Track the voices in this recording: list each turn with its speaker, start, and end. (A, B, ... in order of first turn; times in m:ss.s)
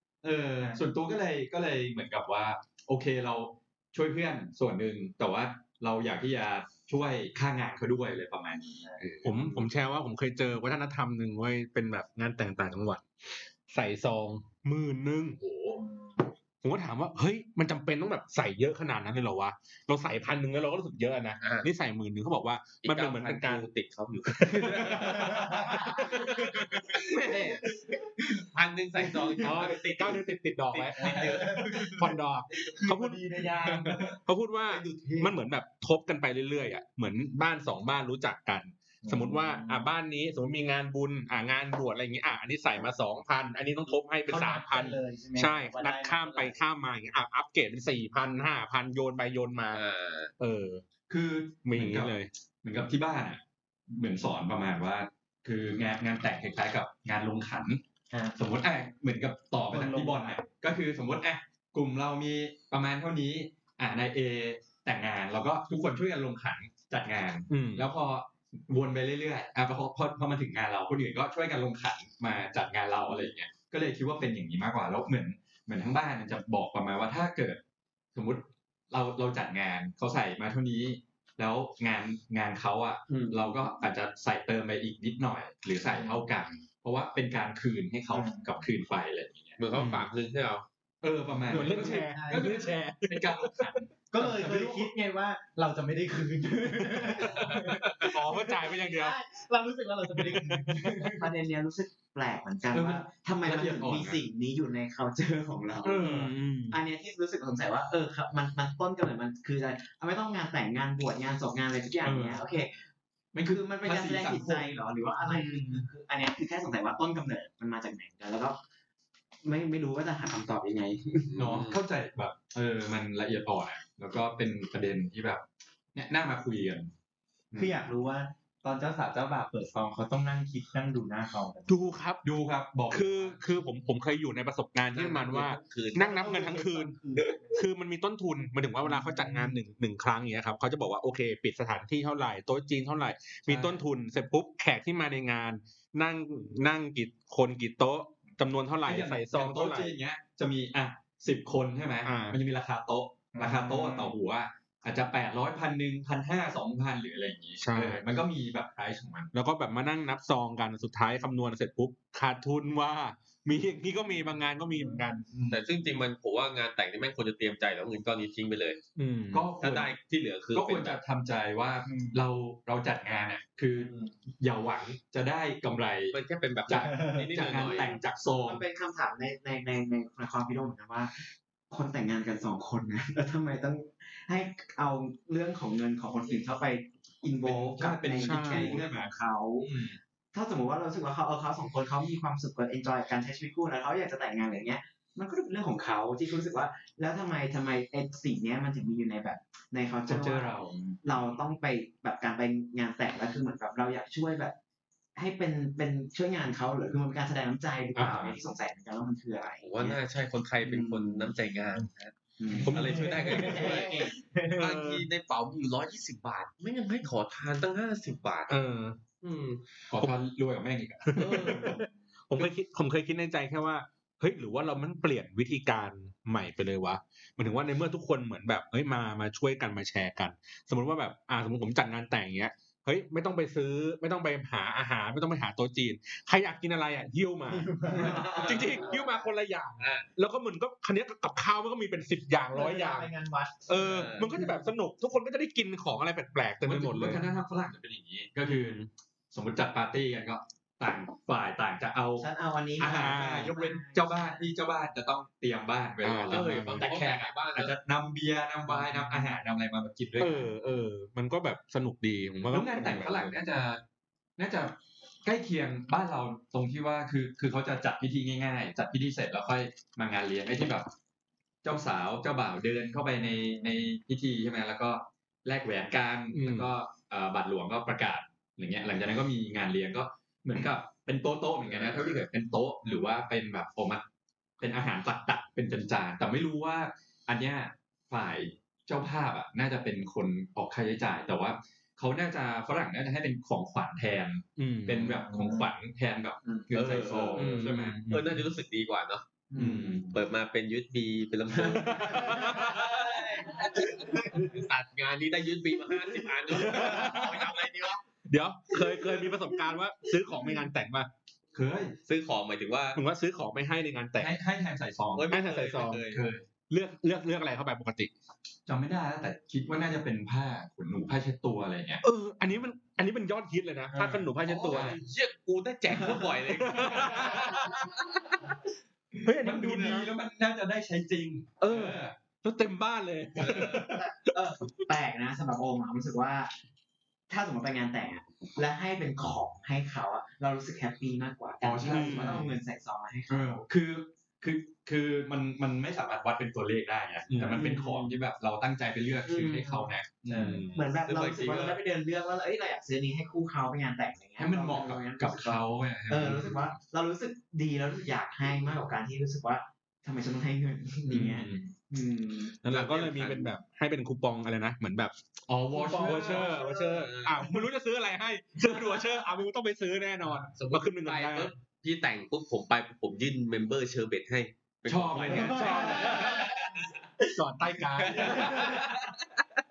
0:00.2-0:08.8 A
0:09.0-0:09.6 B
0:09.2-0:13.1 C
0:13.7-0:15.4 C
0:15.4-0:15.8 A
0:16.6-0:23.7 C
0:21.4-0:21.7 B
0:22.8-0:27.7 B
0:24.3-0:27.7 C
0:28.3-0:32.0 B
0:29.4-0:49.8 C
0:31.0-0:32.1 D
0:32.7-0:34.2 D
0:34.7-0:35.3 D
0:39.0-0:39.9 D
0:44.3-0:46.6 D
0:49.7-0:50.3 B
0:50.4-0:50.8 C
0:51.1-0:57.8 A
0:51.6-0:52.3 C
0:58.4-1:17.6 A
0:59.7-1:00.4 D
1:07.5-1:07.9 C
1:18.2-1:29.6 A
1:28.1-1:28.4 D
1:29.6-1:30.7 B
1:29.8-1:30.1 C
1:31.0-1:34.9 A
1:31.5-1:33.8 C
1:31.5-1:32.7 D
1:34.1-1:41.2 D
1:37.0-1:39.2 C
1:40.2-1:41.1 C
1:41.1-1:46.1 E
1:42.7-1:44.3 A
1:45.8-1:46.8 C
1:46.7-1:52.8 E
1:52.0-1:52.4 A
1:53.3-1:54.7 A
1:53.5-1:58.6 E
1:55.2-1:55.8 C
1:59.4-2:01.3 E
2:01.3-2:01.8 B
2:01.4-2:06.9 A
2:07.5-2:07.9 A
2:07.6-2:12.0 D
2:11.7-2:12.2 C
2:12.2-2:13.4 A
2:12.9-2:17.0 C
2:14.9-2:16.2 B
2:16.0-2:17.6 D
2:17.6-2:29.9 C
2:18.8-2:19.6 D
2:23.5-2:23.8 A
2:28.8-2:39.3 A
2:32.0-2:32.4 C
2:33.4-2:34.1 D
2:37.6-2:38.0 C
2:39.3-2:45.3 C
2:44.7-2:45.5 D
2:45.5-2:48.8 B
2:49.0-2:49.5 C
2:49.3-2:50.0 A
2:49.6-2:51.0 B
2:50.5-2:58.6 A
2:51.9-2:52.2 D
2:53.8-2:54.1 D
2:56.1-2:58.0 B
2:56.9-2:57.2 D
2:58.5-3:09.7 E
3:07.4-3:09.1 A
3:08.1-3:08.8 C
3:09.6-3:10.0 A
3:10.3-3:24.6 E
3:20.1-3:21.0 A
3:25.2-3:30.0 E
3:28.0-3:28.4 C
3:29.6-3:32.2 B
3:30.6-3:31.3 E
3:32.4-3:34.2 E
3:32.6-3:33.7 C
3:32.7-3:38.5 B
3:32.8-3:34.4 D
3:34.5-3:35.1 C
3:38.5-3:39.1 C
3:39.2-3:39.6 B
3:39.9-3:41.7 A
3:41.1-4:03.1 C
3:41.2-3:41.8 B
3:57.5-3:59.0 D
3:59.8-4:00.1 B
4:02.5-4:04.6 D
4:03.7-4:07.3 C
4:03.7-4:04.3 B
4:06.6-4:08.8 A
4:08.4-4:08.9 C
4:09.3-4:12.3 A
4:12.2-4:14.4 E
4:12.8-4:20.5 A
4:12.8-4:13.7 C
4:16.0-4:16.9 C
4:16.3-4:17.8 B
4:18.7-4:19.3 C
4:20.2-4:23.4 C
4:22.5-4:23.8 A
4:24.4-4:30.9 A
4:31.6-4:44.0 A
4:36.3-4:36.7 C
4:41.7-4:42.0 B
4:44.6-4:58.0 A
4:54.6-4:55.2 C
4:56.7-4:59.3 B
4:57.4-4:58.5 C
4:59.5-4:59.9 E
4:59.6-5:00.1 A
5:00.1-5:08.0 B
5:01.7-5:03.0 C
5:06.5-5:07.5 C
5:08.3-5:11.1 C
5:11.5-5:12.0 A
5:12.1-5:13.0 B
5:13.0-5:14.4 C
5:14.2-5:15.4 A
5:15.2-5:16.2 B
5:15.3-5:16.1 C
5:16.1-5:16.5 A
5:16.7-5:18.1 C
5:18.7-5:22.0 A
5:22.0-5:25.0 C
5:23.9-5:25.0 A
5:24.4-5:27.8 B
5:26.5-5:28.4 C
5:29.2-5:30.1 C
5:29.2-5:32.1 A
5:31.6-5:34.8 C
5:33.4-5:33.9 B
5:33.8-5:36.5 E
5:37.3-5:43.6 E
5:41.6-5:42.5 A
5:41.8-5:42.5 C
5:43.3-5:50.7 A
5:47.3-5:47.8 C
5:50.3-5:50.8 C
5:50.7-6:02.6 E
5:51.0-5:51.8 B
5:54.4-5:56.7 A
6:01.1-6:01.6 A
6:02.6-6:05.2 C
6:02.7-6:03.5 B
6:05.5-6:06.6 A
6:05.7-6:11.5 C
6:06.2-6:07.6 B
6:10.5-6:16.9 B
6:14.9-6:16.2 A
6:15.3-6:16.6 C
6:17.3-6:19.2 C
6:18.0-6:19.0 B